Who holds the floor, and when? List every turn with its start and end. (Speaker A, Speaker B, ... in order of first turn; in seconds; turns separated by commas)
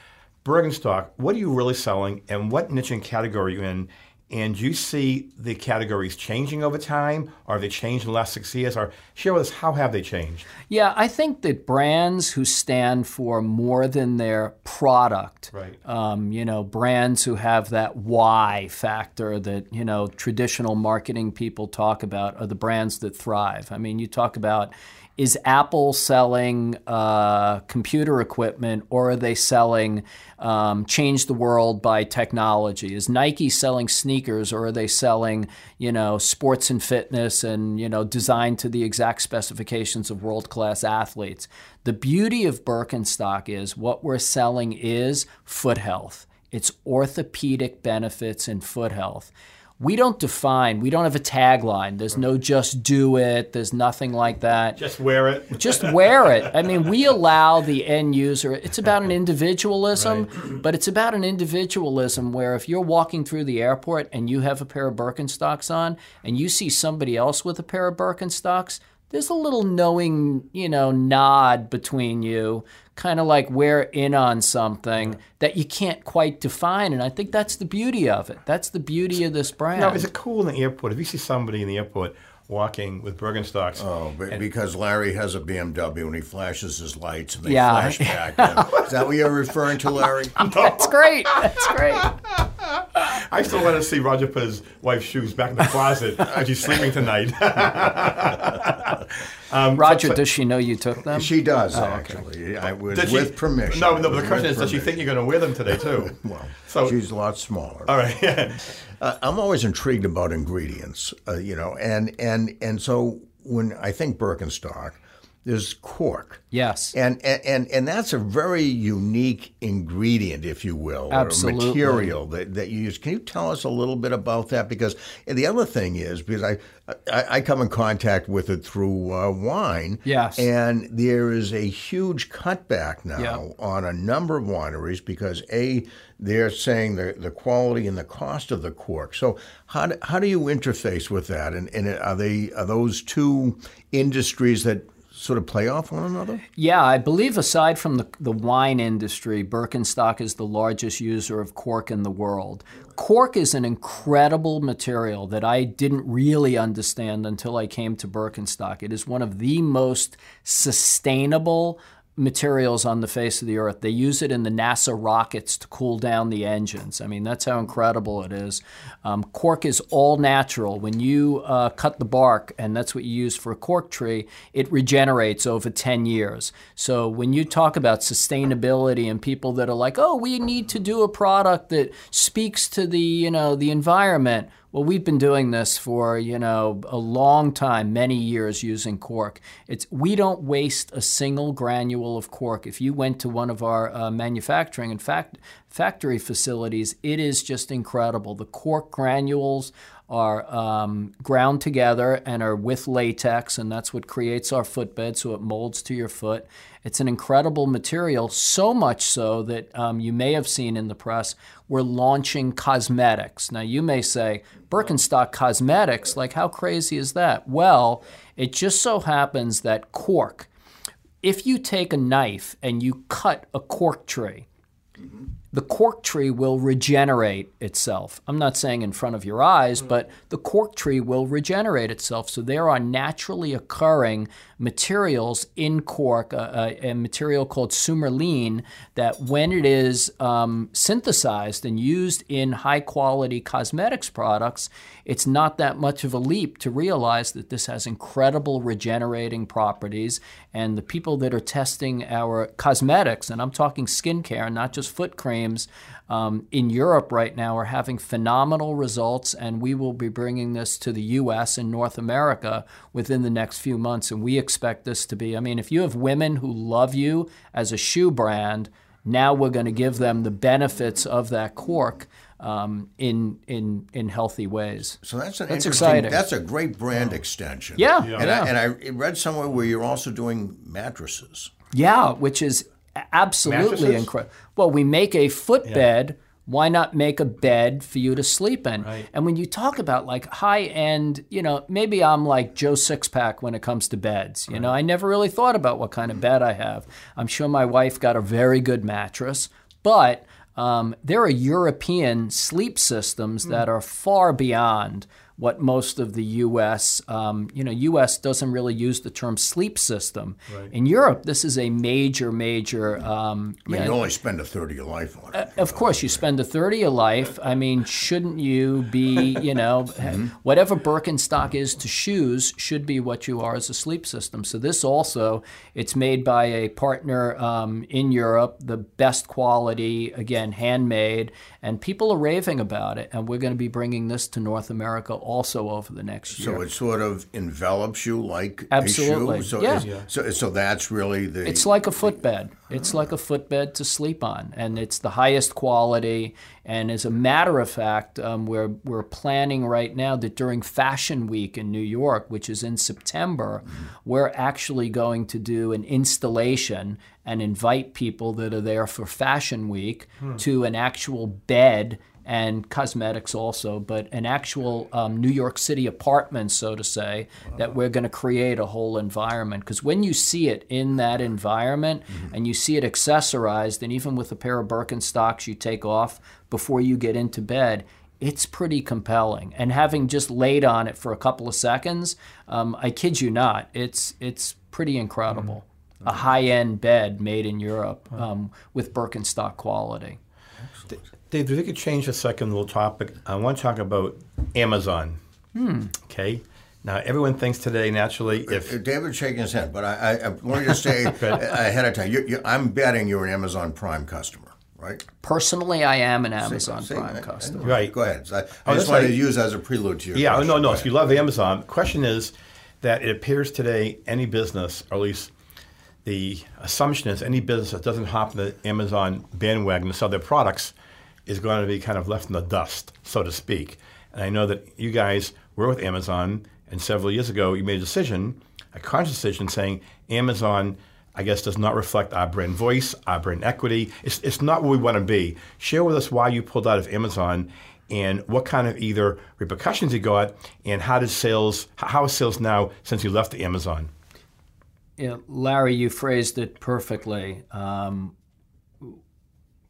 Speaker A: 0.4-10.5, Speaker B: 10.7-54.8, Speaker A: 15.5-15.8, Speaker A: 54.8-56.8, Speaker B: 55.5-80.0, Speaker A: 60.0-60.3, Speaker A: 79.8-84.4, Speaker C: 83.8-90.5, Speaker B: 87.5-88.7, Speaker B: 90.4-92.2, Speaker A: 90.4-100.2, Speaker B: 99.7-102.2, Speaker C: 101.1-105.1, Speaker A: 102.9-107.0, Speaker C: 105.7-107.9, Speaker A: 107.9-108.7, Speaker C: 108.8-146.4, Speaker B: 116.5-116.9, Speaker B: 121.1-122.1, Speaker B: 130.1-130.5, Speaker B: 133.2-133.4, Speaker B: 146.6-220.5, Speaker B: 221.2-224.5, Speaker B: 225.5-276.2, Speaker C: 275.0-281.5, Speaker B: 277.8-278.5, Speaker B: 281.7-314.0, Speaker A: 283.5-284.1, Speaker A: 288.8-289.1, Speaker C: 313.7-316.2, Speaker B: 315.3-336.6, Speaker C: 320.0-320.3, Speaker C: 336.4-341.8, Speaker B: 338.7-339.9, Speaker A: 339.8-340.1, Speaker B: 341.4-390.2, Speaker A: 390.9-395.2, Speaker B: 395.6-395.9, Speaker A: 396.0-398.7, Speaker C: 398.4-405.1, Speaker A: 401.1-401.5, Speaker B: 405.2-407.7, Speaker C: 406.4-410.9, Speaker A: 407.6-407.9, Speaker A: 408.6-409.2, Speaker A: 410.1-415.3, Speaker A: 416.1-420.7, Speaker A: 421.3-443.9, Speaker B: 445.0-448.1